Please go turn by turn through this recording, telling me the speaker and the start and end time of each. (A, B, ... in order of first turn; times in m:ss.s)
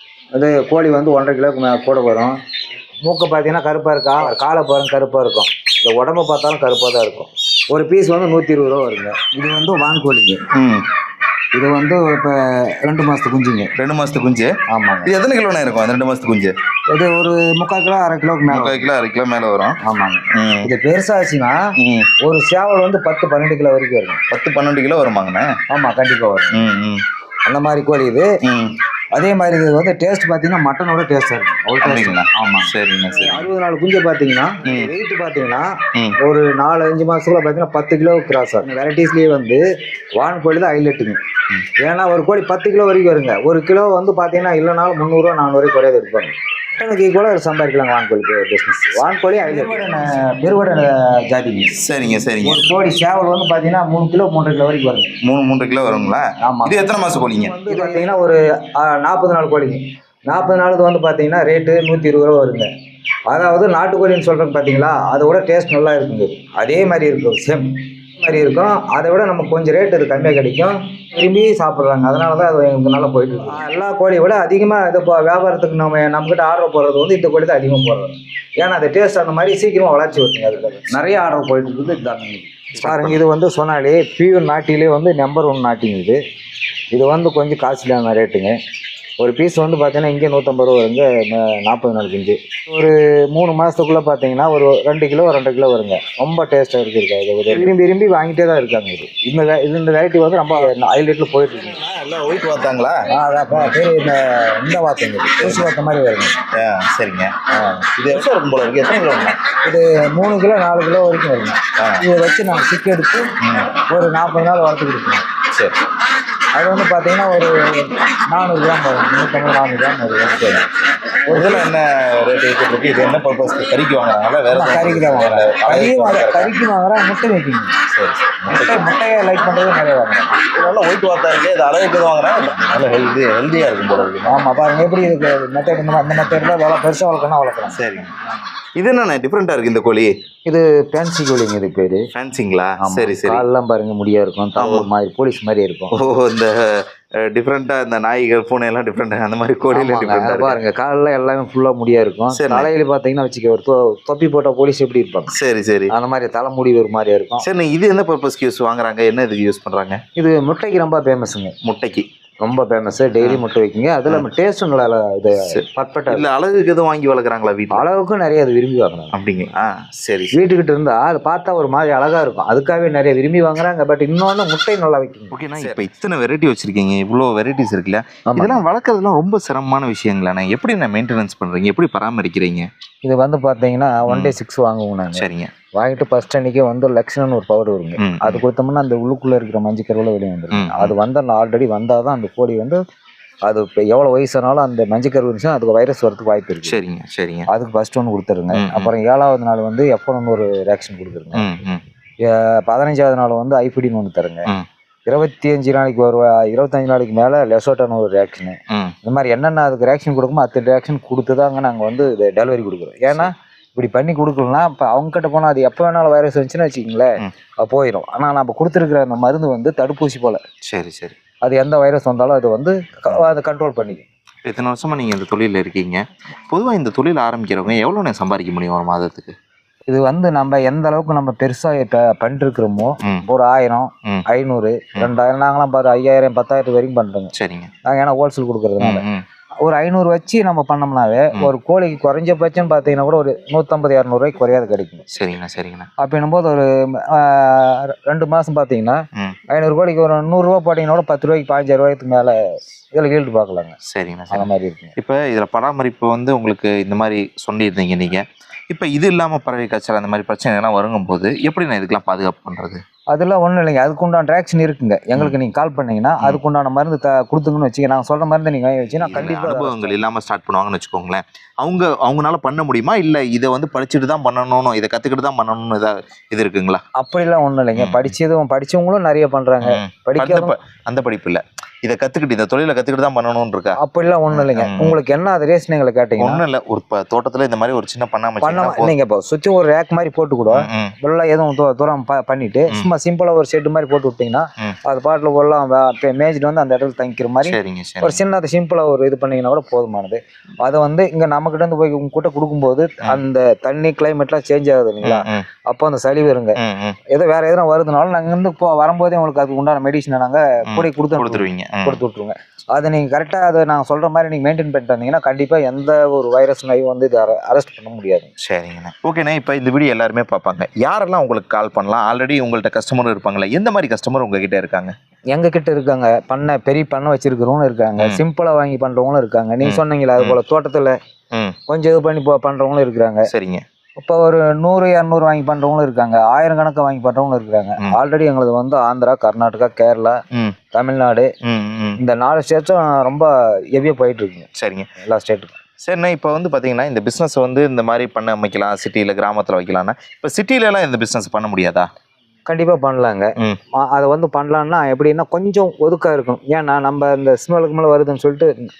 0:00.3-0:02.4 A
0:03.0-0:10.4 A
0:10.5-0:10.8 B
0:11.5-0:13.7 A
0:13.8-0:14.5 B
0:14.7-0:15.1 A
0:15.0-0:16.5 B
0:16.9-0:18.8 A
0:18.5-0:19.8 B
0:19.8-0:21.6 A
0:20.3-0:20.7 B
0:21.8-0:22.1 B
0:22.2-0:24.2 A
0:24.3-0:25.5 B
0:25.7-0:26.7 A
0:26.5-0:27.0 B
0:27.4-0:28.3 A
0:28.4-0:28.8 B
0:29.1-0:35.7 A
0:31.8-0:33.5 B
0:34.6-0:34.9 B
0:36.2-0:39.6 A
0:40.2-0:41.2 A
0:41.8-0:51.8 A
0:49.4-0:50.0 B
0:51.8-0:52.6 B
0:52.4-0:55.1 A
0:55.2-0:57.9 B
0:56.4-1:02.7 A
1:03.3-1:26.2 A
1:22.7-1:23.2 B
1:26.9-1:28.5 A
1:29.2-1:41.8 A
1:41.8-1:43.7 B
1:43.1-1:46.4 A
1:45.4-1:45.7 B
1:46.5-1:47.3 B
1:47.6-1:47.8 A
1:47.9-1:49.4 B
1:49.6-1:53.3 A
1:51.8-1:52.0 B
1:53.4-1:53.7 B
1:53.9-1:55.2 A
1:56.5-2:01.6 A
2:01.3-2:06.5 B
2:04.5-2:07.7 A
2:07.9-2:08.9 B
2:08.5-2:10.4 A
2:10.4-2:14.4 B
2:14.3-2:17.8 A
2:17.7-2:18.2 B
2:18.8-2:20.1 B
2:20.4-2:22.0 A
2:22.1-2:23.5 B
2:22.8-2:25.9 A
2:24.6-2:24.9 B
2:25.9-2:30.6 B
2:29.7-2:35.3 A
2:32.3-2:32.7 B
2:35.3-2:35.9 B
2:35.9-2:37.4 A
2:37.4-2:40.0 B
2:40.2-2:41.5 A
2:41.6-2:42.0 B
2:42.4-2:46.3 A
2:45.4-2:47.8 B
2:47.7-2:49.1 A
2:49.1-2:50.4 B
2:50.3-2:55.8 A
2:55.3-3:02.7 B
2:58.3-2:58.6 A
3:03.0-3:05.2 A
3:04.1-3:04.4 B
3:05.1-3:05.5 B
3:05.8-3:12.8 A
3:08.0-3:08.4 B
3:10.5-3:10.9 B
3:13.4-3:16.8 A
3:16.6-3:17.5 B
3:17.5-3:21.5 A
3:18.5-3:18.9 B
3:21.3-3:21.8 B
3:22.2-3:24.5 A
3:25.1-3:40.4 A
3:40.7-3:41.2 B
3:41.4-3:44.0 A
3:44.4-3:49.3 B
3:49.9-3:57.3 A
3:57.3-3:57.7 B
3:57.8-3:59.0 A
3:58.8-3:59.2 B
3:59.6-4:05.0 A
4:05.1-4:05.9 B
4:06.0-4:12.4 A
4:12.9-4:13.8 A
4:13.9-4:22.8 B
4:14.3-4:14.9 A
4:23.1-4:30.0 A
4:29.0-4:36.8 B
4:37.0-4:40.5 A
4:37.8-4:38.1 B
4:39.6-4:43.8 B
4:43.8-4:46.4 A
4:44.3-4:45.0 B
4:46.2-4:48.9 B
4:48.4-5:06.6 A
4:50.5-4:50.9 B
4:57.4-4:58.2 B
5:05.0-5:05.4 B
5:06.6-5:07.0 B
5:07.1-5:18.3 A
5:10.7-5:12.0 B
5:18.4-5:24.9 B
5:25.3-5:30.9 A
5:29.6-5:30.4 B
5:31.7-5:33.3 A
5:33.3-5:33.6 B
5:34.0-5:40.2 A
5:40.7-5:41.3 A
5:41.4-5:42.0 B
5:42.0-5:45.6 A
5:44.6-5:44.9 B
5:45.8-5:51.9 B
5:52.4-5:58.5 A